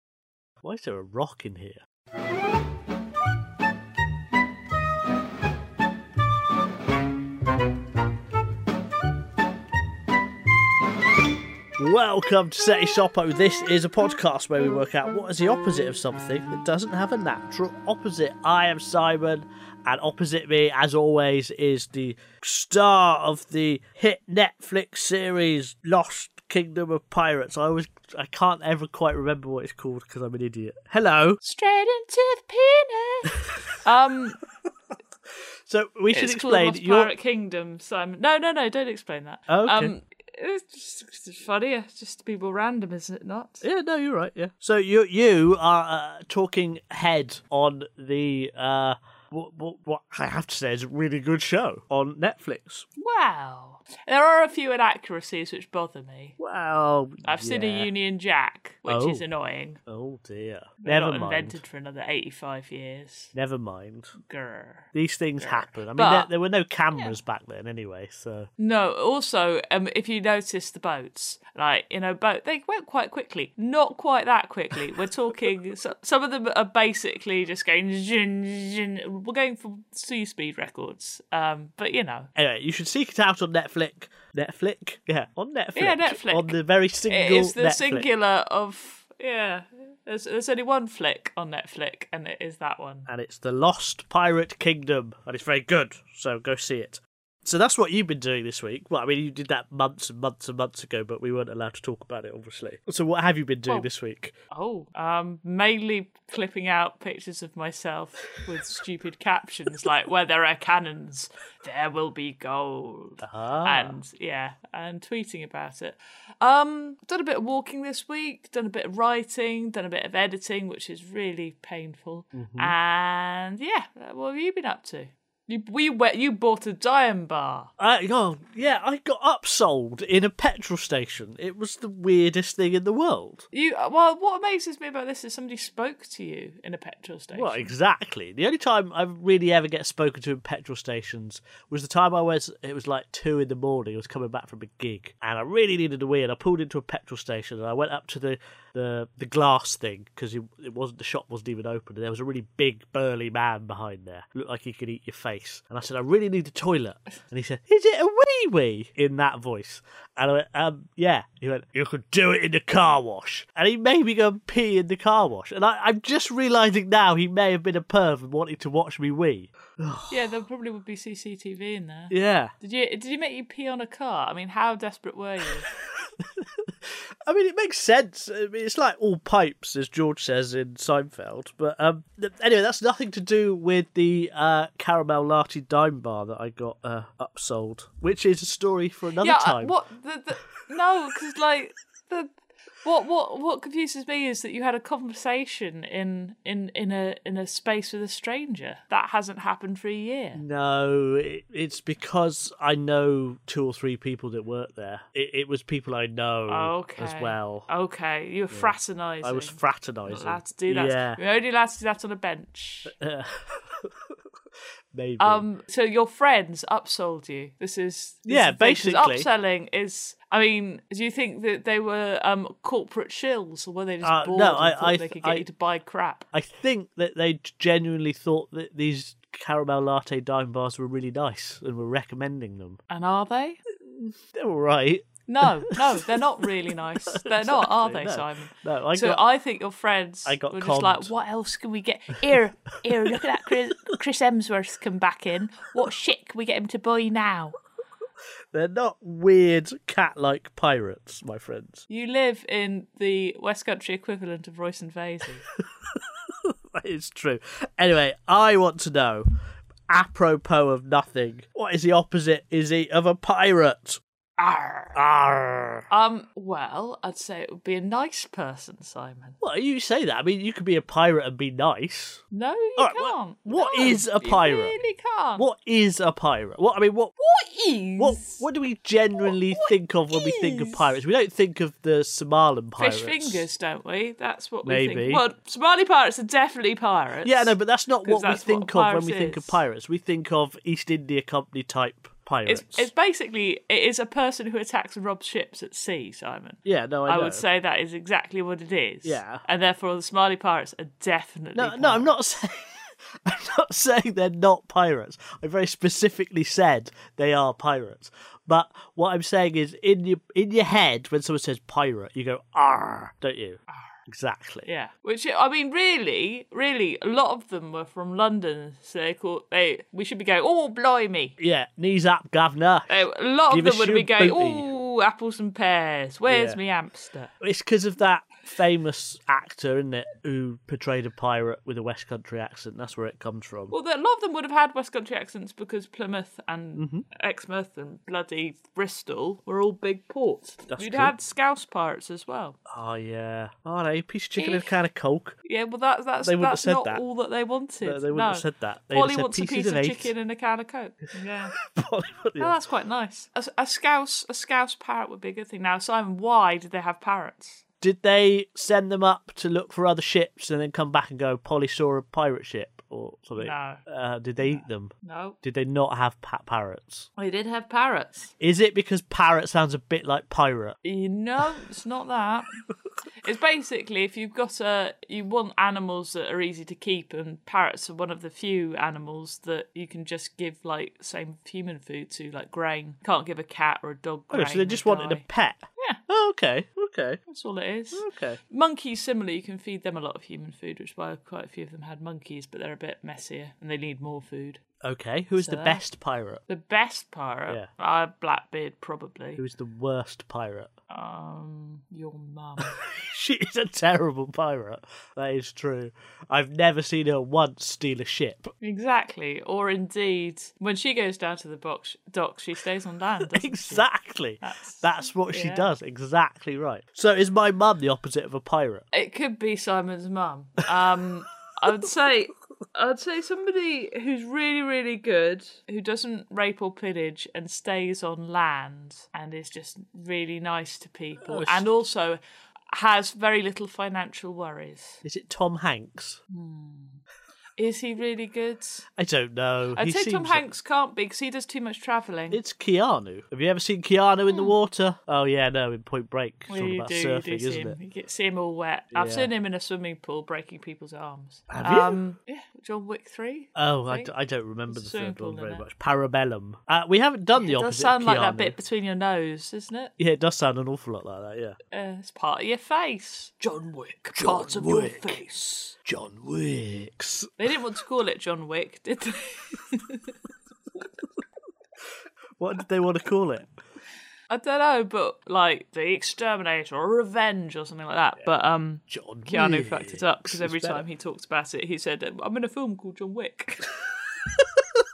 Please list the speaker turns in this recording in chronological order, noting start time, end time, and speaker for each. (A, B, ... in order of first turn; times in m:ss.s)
0:00.6-0:01.8 A
0:11.8-0:31.4 A
0:31.4-0:33.3 B
0:33.8-0:34.4 B
0:35.7-0:37.1 A
0:36.1-0:43.6 B
0:39.5-0:39.9 A
0:43.6-0:52.9 A
0:53.0-0:56.4 B
0:56.4-0:57.9 A
0:57.2-0:59.8 B
0:58.9-0:59.2 A
0:59.9-1:01.6 A
1:00.8-1:03.3 B
1:03.3-1:04.2 A
1:04.2-1:06.3 B
1:04.9-1:08.5 A
1:06.9-1:07.2 B
1:08.6-1:22.3 B
1:22.4-1:28.1 A
1:25.7-1:33.1 B
1:33.1-1:44.3 A
1:44.5-2:07.7 B
1:53.2-1:54.0 A
2:02.3-2:02.8 A
2:07.8-2:13.4 A
2:13.5-2:17.7 B
2:17.3-2:50.3 A
2:50.1-2:55.7 B
2:52.1-2:52.5 A
2:55.9-3:09.7 A
3:09.2-3:12.3 B
3:12.8-3:20.4 B
3:20.3-3:27.7 A
3:26.5-3:32.9 B
3:28.5-3:31.2 A
3:32.8-3:33.9 A
3:34.9-3:35.4 A
3:35.2-3:46.2 B
3:38.2-3:39.3 A
3:44.0-3:45.4 A
3:46.3-3:52.8 A
3:52.9-3:53.6 B
3:53.9-3:55.2 A
3:55.3-4:07.6 B
3:55.7-3:56.0 A
3:57.1-3:59.2 A
4:00.2-4:01.1 A
4:08.5-4:11.8 A
4:11.9-4:15.4 B
4:16.7-4:19.2 A
4:19.9-4:24.0 A
4:24.4-4:25.0 B
4:24.9-4:25.9 A
4:25.9-4:29.4 B
4:29.4-4:32.2 A
4:32.3-4:35.5 B
4:32.8-4:34.8 A
4:35.4-4:37.1 A
4:37.2-4:38.4 B
4:38.0-4:43.4 A
4:39.2-4:40.9 B
4:42.8-4:49.6 B
4:44.6-4:45.2 A
4:47.2-4:52.9 A
4:52.4-5:02.2 B
4:56.6-4:57.4 A
4:59.0-4:59.4 A
5:01.5-5:14.6 A
5:14.6-5:21.4 B
5:21.4-5:24.7 A
5:22.9-5:27.3 B
5:26.3-5:26.6 A
5:27.4-5:33.7 A
5:33.7-5:42.6 B
5:36.8-5:37.0 A
5:40.7-5:41.1 A
5:42.7-5:45.4 A
5:44.4-5:44.8 B
5:45.4-5:51.5 B
5:46.2-5:47.0 A
5:47.8-5:50.1 A
5:51.7-5:52.5 A
5:52.4-5:57.6 B
5:57.8-6:07.1 A
6:03.4-6:03.8 B
6:04.4-6:05.4 B
6:07.2-6:08.3 B
6:08.4-6:10.8 A
6:10.8-6:12.5 B
6:13.2-6:25.2 B
6:24.3-6:27.2 A
6:27.3-6:34.6 B
6:27.9-6:28.4 A
6:34.8-6:36.4 A
6:35.4-6:35.8 B
6:36.5-6:39.4 B
6:39.4-6:40.7 A
6:40.9-6:42.8 B
6:42.7-6:48.5 A
6:48.6-6:53.9 B
6:53.2-6:58.8 A
6:54.4-6:55.7 B
6:58.9-7:15.0 B
7:11.2-7:11.7 A
7:15.0-7:16.2 A
7:16.3-7:17.0 B
7:17.6-7:18.9 B
7:19.0-7:20.4 A
7:19.7-7:22.4 B
7:22.3-7:27.8 A
7:24.3-7:24.5 B
7:26.5-7:34.1 B
7:28.9-7:29.3 A
7:31.5-7:32.0 A
7:33.5-7:38.6 A
7:34.7-7:35.6 B
7:37.4-7:39.9 B
7:40.0-7:41.6 A
7:41.7-7:45.7 B
7:44.1-7:45.2 A
7:45.8-7:47.4 A
7:47.4-7:50.1 B
7:52.4-7:53.5 A
7:54.3-8:03.6 B
7:58.9-8:00.8 A